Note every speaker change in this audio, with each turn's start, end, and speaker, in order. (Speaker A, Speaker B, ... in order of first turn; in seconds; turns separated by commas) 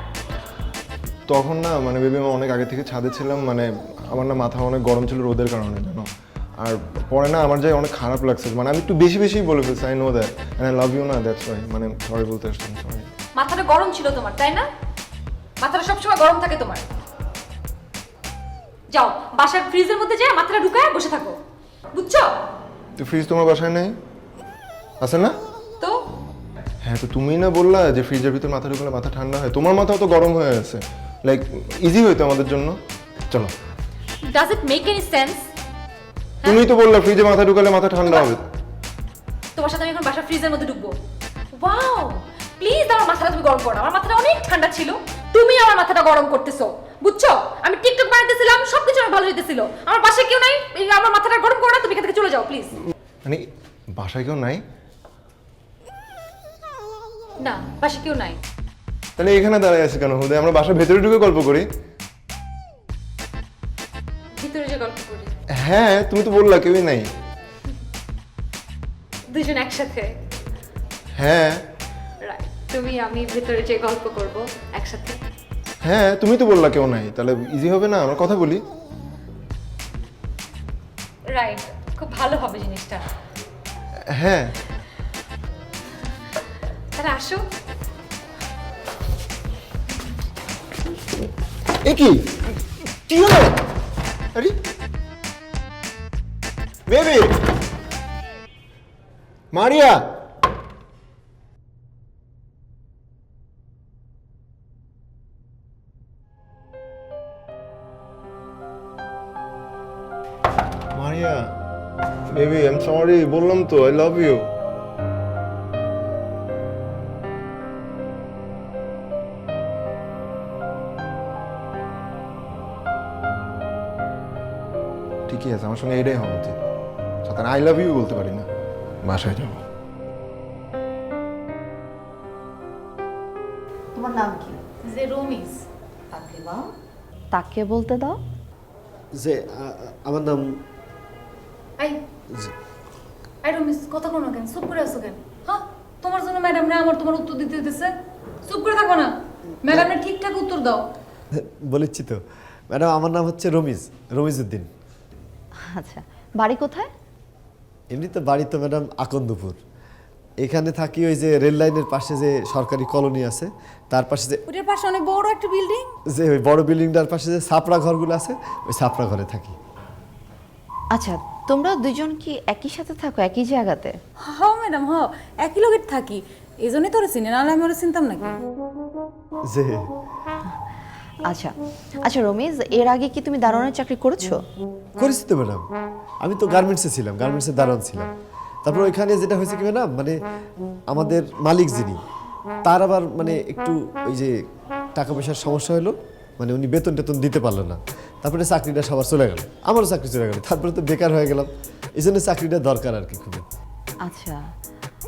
Speaker A: 1.3-6.1, Speaker A: 6.6-13.1, Speaker B: 13.3-14.7, Speaker B: 15.6-16.8, Speaker B: 18.9-21.4, Speaker B: 21.9-22.4, Speaker A: 23.0-23.9, Speaker A: 25.0-25.4, Speaker A: 26.8-32.8, Speaker B: 34.3-35.5, Speaker A: 36.4-38.4, Speaker B: 39.6-40.9, Speaker B: 41.5-52.7, Speaker A: 53.2-54.6, Speaker B: 57.4-58.4, Speaker A: 59.2-61.7, Speaker B: 64.4-65.3, Speaker A: 65.6-67.1, Speaker B: 69.3-70.2, Speaker A: 71.2-71.6, Speaker B: 72.2-75.2, Speaker A: 75.8-78.6, Speaker B: 81.3-83.0, Speaker A: 84.1-84.5, Speaker B: 87.0-87.4, Speaker A: 91.9-92.3, Speaker A: 93.1-93.5, Speaker A: 99.5-100.0, Speaker A: 110.9-111.5, Speaker A: 112.3-114.5, Speaker A: 125.3-126.6, Speaker A: 127.2-128.5, Speaker A: 129.0-129.6, Speaker C: 133.9-134.6, Speaker D: 134.8-135.6, Speaker C: 136.1-136.7, Speaker C: 137.3-138.2, Speaker E: 139.1-140.6, Speaker D: 143.4-147.9, Speaker D: 148.4-149.1, Speaker D: 149.6-150.8, Speaker E: 151.3-154.7, Speaker C: 155.6-156.9, Speaker E: 157.9-159.6, Speaker E: 160.4-164.4, Speaker D: 164.5-165.9, Speaker E: 166.1-169.6, Speaker C: 170.9-174.0, Speaker D: 174.2-178.4, Speaker E: 179.5-179.9, Speaker C: 181.2-184.4, Speaker E: 185.0-185.6, Speaker E: 186.2-188.1, Speaker E: 188.6-190.2, Speaker E: 190.9-192.0, Speaker E: 192.6-194.4, Speaker E: 194.9-203.4, Speaker C: 204.0-204.5